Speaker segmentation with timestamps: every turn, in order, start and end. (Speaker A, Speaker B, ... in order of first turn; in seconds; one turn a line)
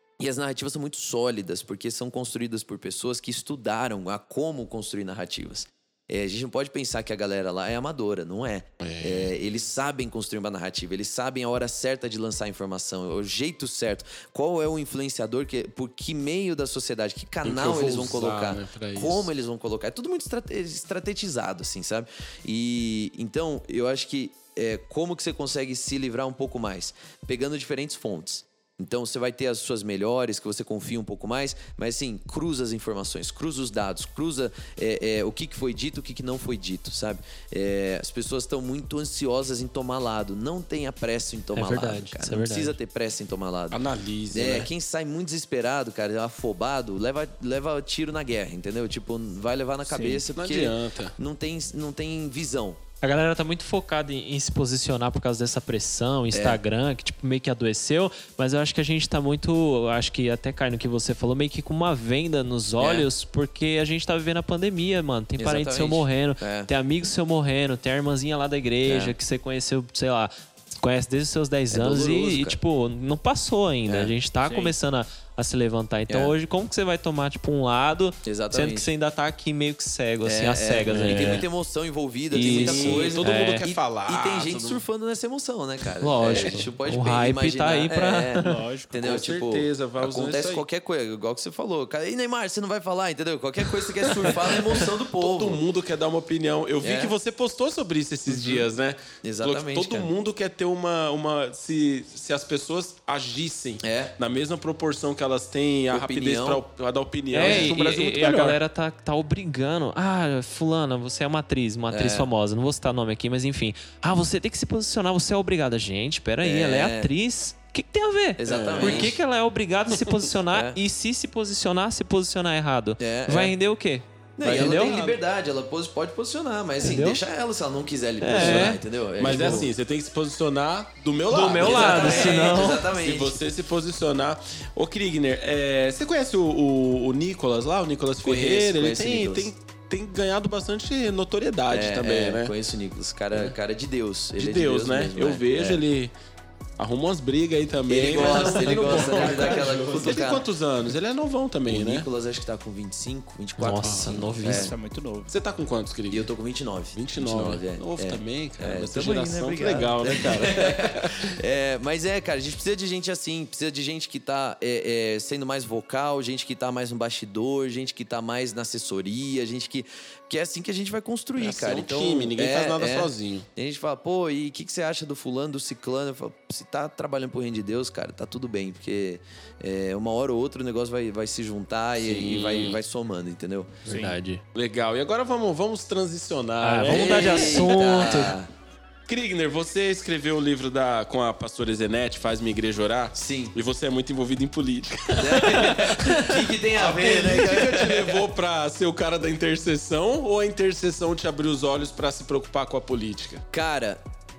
Speaker A: 0.2-43.8
Speaker B: 8.8-9.3
Speaker B: 17.4-19.3
Speaker C: 41.5-42.8
Speaker B: 43.7-44.7
Speaker A: 44.3-52.8
Speaker D: 49.9-50.2
Speaker B: 50.3-51.1
Speaker C: 53.0-81.5
Speaker A: 56.3-56.6
Speaker A: 62.8-63.1
Speaker A: 65.4-66.7
Speaker A: 68.8-69.2
Speaker A: 71.7-72.6
Speaker A: 73.9-74.1
Speaker D: 74.4-74.8
Speaker A: 76.1-76.3
Speaker A: 78.2-78.9
Speaker A: 80.2-95.6
Speaker B: 80.9-81.4
Speaker C: 82.3-83.7
Speaker B: 82.4-84.8
Speaker C: 86.0-88.5
Speaker B: 86.3-86.6
Speaker D: 88.4-89.0
Speaker B: 89.0-90.7
Speaker B: 94.1-108.6
Speaker A: 96.8-97.1
Speaker A: 98.3-98.6
Speaker A: 99.2-100.1
Speaker A: 103.8-104.1
Speaker A: 105.9-106.6
Speaker C: 107.3-125.0
Speaker A: 107.4-107.7
Speaker A: 111.9-112.3
Speaker A: 116.4-117.1
Speaker A: 118.4-119.2
Speaker B: 118.5-119.2
Speaker B: 119.9-120.3
Speaker A: 120.5-120.8
Speaker A: 123.0-123.5
Speaker A: 124.4-129.7
Speaker B: 124.4-125.2
Speaker C: 126.8-127.2
Speaker C: 128.2-128.8
Speaker B: 128.3-142.5
Speaker C: 131.3-132.9
Speaker A: 131.5-133.3
Speaker A: 138.2-139.5
Speaker A: 141.7-145.8
Speaker B: 144.4-146.1
Speaker B: 146.8-152.1
Speaker A: 147.9-150.5
Speaker D: 148.2-150.2
Speaker A: 151.7-154.7
Speaker C: 153.6-154.7
Speaker B: 153.8-154.2
Speaker D: 154.4-155.3
Speaker B: 155.3-156.3
Speaker A: 156.1-183.9
Speaker B: 156.9-161.3
Speaker B: 171.4-173.5
Speaker B: 182.0-182.8
Speaker C: 183.9-184.4
Speaker D: 183.9-184.2
Speaker B: 184.5-187.8
Speaker C: 186.6-188.4
Speaker A: 186.9-188.5
Speaker B: 189.1-203.4
Speaker A: 193.2-193.6
Speaker A: 195.2-198.2
Speaker A: 203.5-204.0